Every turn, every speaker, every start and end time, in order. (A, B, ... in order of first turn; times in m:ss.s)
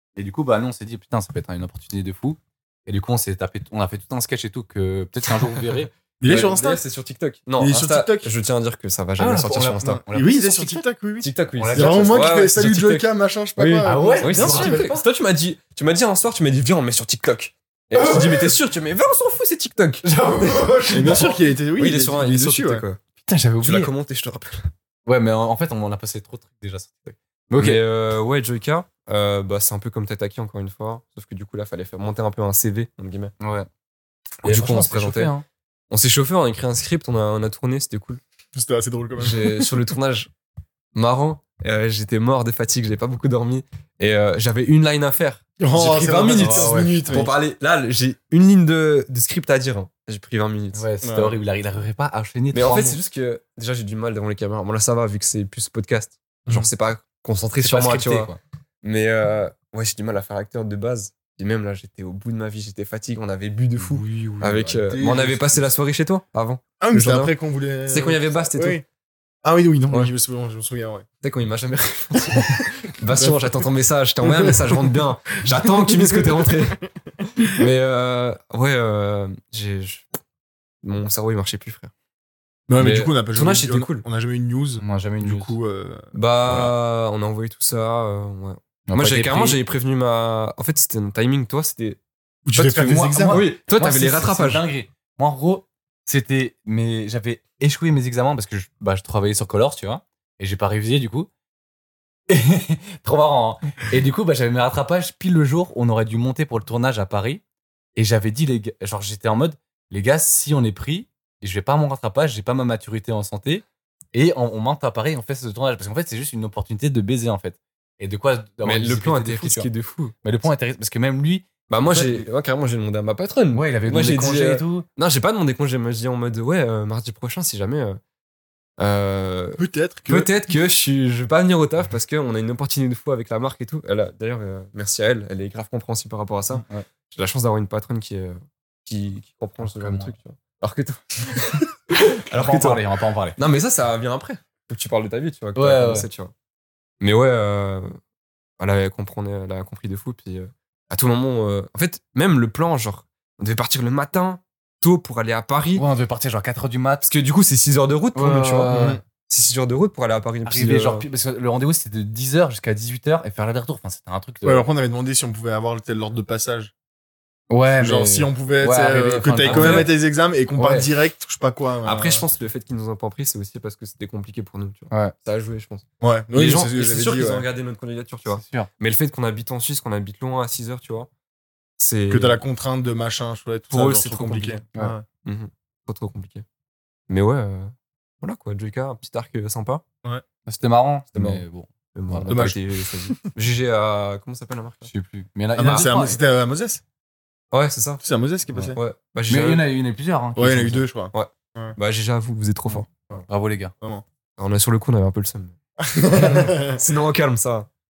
0:00.2-0:05.9 A
0:06.2-0:06.8 B
0:06.2-0:10.0 C
0:07.6-0:08.3 B
0:09.2-0:10.8 A
0:09.8-0:14.9 B
0:11.2-0:13.0 C
0:11.6-0:12.3 A
0:13.6-0:23.0 C
0:13.8-0:15.0 A
0:20.0-0:21.3 A
0:20.9-0:22.8 B
0:23.2-0:23.9 A
0:23.6-0:24.6 C
0:25.0-0:27.8 A
0:27.6-0:33.3 C
0:33.4-0:33.7 A
0:34.4-0:35.3 C
0:34.4-0:35.4 A
0:35.9-0:38.2 C
0:38.5-0:39.6 B
0:39.2-0:40.3 C
0:40.9-0:50.8 C
0:45.6-0:47.3 B
0:46.3-0:47.3 A
0:50.7-0:53.0 A
0:51.0-0:51.4 B
0:52.5-1:07.3 C
0:57.6-0:58.4 A
1:03.9-1:05.0 A
1:04.1-1:05.6 B
1:06.8-1:08.8 B
1:07.9-1:08.8 C
1:09.4-1:11.0 B
1:11.2-1:16.8 C
1:12.3-1:12.6 B
1:13.1-1:13.5 B
1:14.2-1:16.3 B
1:17.4-1:17.6 B
1:17.6-1:20.2 C
1:20.8-1:21.9 C
1:22.7-1:26.7 B
1:22.8-1:24.0 C
1:24.8-1:25.5 A
1:26.1-1:32.0 C
1:28.9-1:29.6 A
1:32.4-1:33.4 B
1:32.5-1:34.6 C
1:32.7-1:41.3 A
1:42.3-1:47.4 A
1:48.0-1:59.7 A
1:58.6-2:00.1 C
2:00.2-2:02.2 A
2:01.7-2:08.0 C
2:03.5-2:04.8 A
2:08.8-2:22.8 C
2:09.6-2:10.3 B
2:19.6-2:20.1 A
2:22.3-2:23.4 A
2:23.4-2:26.3 C
2:25.6-2:26.1 A
2:27.0-2:27.9 C
2:28.6-2:35.8 C
2:35.7-2:37.0 A
2:37.0-2:41.0 C
2:38.1-2:39.0 A
2:38.7-2:39.0 B
2:40.4-2:44.7 A
2:44.4-2:46.7 B
2:47.5-2:49.9 A
2:47.8-2:52.2 B
2:49.4-2:49.9 C
2:50.6-2:50.9 A
2:51.8-3:01.1 C
2:56.0-2:57.4 B
2:58.3-2:58.7 A
3:01.8-3:02.4 C
3:02.1-3:05.0 B
3:03.7-3:04.6 C
3:05.2-3:06.4 C
3:07.1-3:09.8 C
3:10.4-3:12.5 A
3:11.1-3:11.4 C
3:11.9-3:14.9 C
3:12.3-3:13.3 B
3:14.9-3:16.2 A
3:15.6-3:16.8 B
3:17.5-3:18.0 C
3:18.0-3:18.8 B
3:18.7-3:19.6 C
3:19.3-3:20.8 A
3:20.4-3:21.8 B
3:21.1-3:22.9 C
3:23.3-3:23.7 A
3:24.4-3:25.6 C
3:25.8-3:26.8 B
3:26.1-3:27.7 C